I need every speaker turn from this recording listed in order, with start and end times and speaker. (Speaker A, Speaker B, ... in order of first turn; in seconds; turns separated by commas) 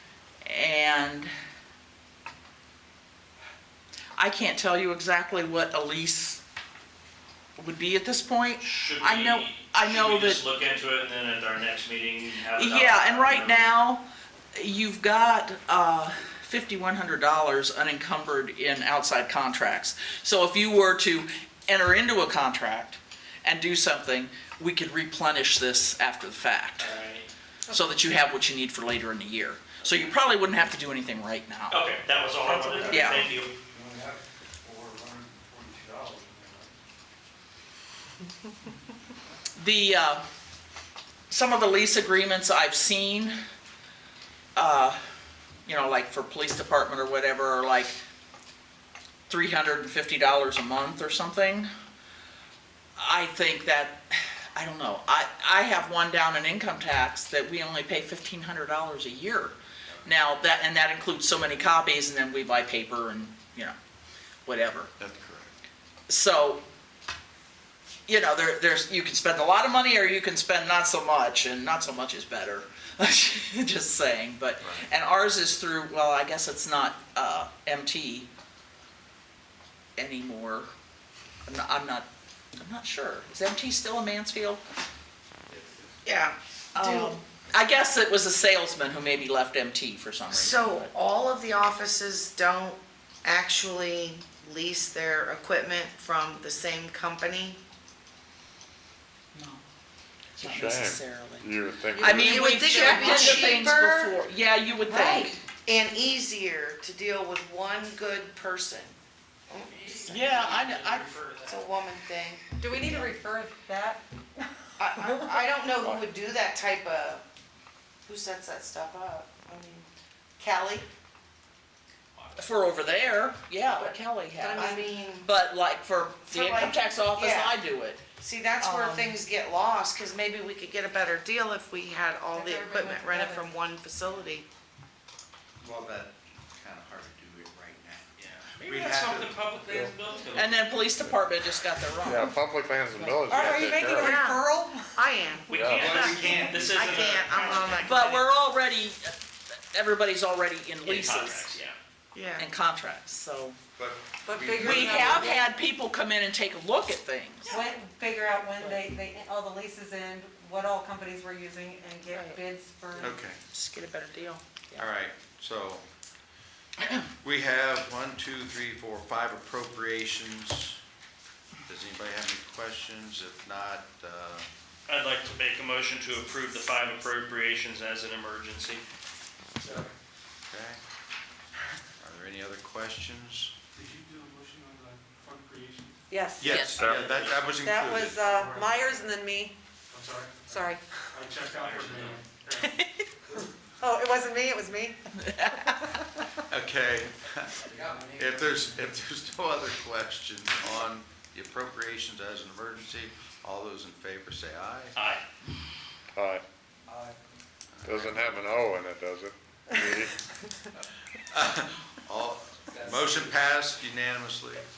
Speaker A: 0.5-1.3, Speaker A: 4.2-6.4, Speaker A: 7.6-10.4, Speaker B: 8.6-13.7, Speaker A: 12.5-14.0, Speaker A: 14.5-26.9, Speaker B: 26.8-27.3, Speaker A: 27.7-31.8, Speaker B: 31.7-33.5, Speaker C: 32.5-36.7, Speaker A: 32.9-33.3, Speaker A: 39.6-40.2, Speaker A: 41.3-43.4, Speaker A: 44.5-45.0, Speaker A: 45.6-47.9, Speaker A: 49.3-51.7, Speaker A: 53.0-59.5, Speaker A: 60.0-63.7, Speaker A: 64.5-64.9, Speaker D: 65.0-65.5, Speaker A: 66.1-66.6, Speaker A: 68.1-78.3, Speaker D: 74.6-74.9, Speaker A: 80.0-80.7, Speaker A: 81.5-82.1, Speaker A: 82.6-84.6, Speaker E: 86.0-87.2, Speaker A: 86.7-90.9, Speaker E: 90.3-97.6, Speaker A: 99.3-99.6, Speaker A: 100.4-105.4, Speaker F: 100.4-102.5, Speaker E: 102.0-104.2, Speaker G: 102.3-103.6, Speaker E: 104.9-108.9, Speaker E: 109.5-110.5, Speaker B: 109.6-111.8, Speaker A: 110.1-111.1, Speaker E: 111.4-113.1, Speaker G: 112.6-114.0, Speaker E: 114.8-117.2, Speaker E: 118.0-119.9, Speaker E: 120.4-120.9, Speaker B: 122.1-122.4, Speaker A: 122.4-128.0, Speaker E: 124.4-125.3, Speaker E: 126.3-127.5, Speaker E: 128.2-134.4, Speaker A: 128.6-129.2, Speaker G: 132.3-133.5, Speaker D: 135.6-139.4, Speaker B: 138.2-140.6, Speaker A: 140.3-142.3, Speaker F: 142.0-144.2, Speaker G: 143.1-145.0, Speaker E: 143.4-145.5, Speaker B: 145.5-148.1, Speaker F: 145.5-146.0, Speaker D: 145.8-146.8, Speaker C: 146.0-146.9, Speaker E: 146.6-148.2, Speaker A: 147.8-149.1, Speaker A: 149.7-151.5, Speaker B: 150.8-151.8, Speaker E: 152.1-152.4, Speaker A: 152.4-153.6, Speaker D: 153.8-155.3, Speaker G: 154.3-155.5, Speaker A: 154.6-157.6, Speaker G: 157.5-163.2, Speaker D: 163.0-163.4, Speaker A: 163.5-164.8, Speaker D: 164.8-165.8, Speaker D: 167.2-170.8, Speaker D: 171.7-174.5, Speaker B: 174.9-178.8, Speaker H: 179.6-179.9, Speaker D: 180.5-180.8, Speaker D: 182.0-183.5, Speaker H: 183.7-186.0, Speaker G: 186.1-186.6, Speaker D: 186.4-188.2, Speaker A: 186.5-186.8, Speaker C: 186.6-187.3, Speaker B: 186.6-187.4, Speaker G: 187.6-189.5, Speaker H: 188.2-188.9, Speaker H: 189.9-192.7, Speaker G: 190.5-190.8, Speaker B: 191.5-192.2, Speaker G: 193.8-195.0, Speaker A: 195.2-195.9, Speaker G: 195.5-196.0, Speaker D: 196.5-204.9, Speaker C: 197.7-198.9, Speaker B: 204.9-205.2, Speaker F: 206.1-206.4, Speaker C: 206.9-207.2, Speaker D: 207.7-208.3, Speaker F: 207.8-210.2, Speaker D: 211.3-214.6, Speaker C: 212.7-213.5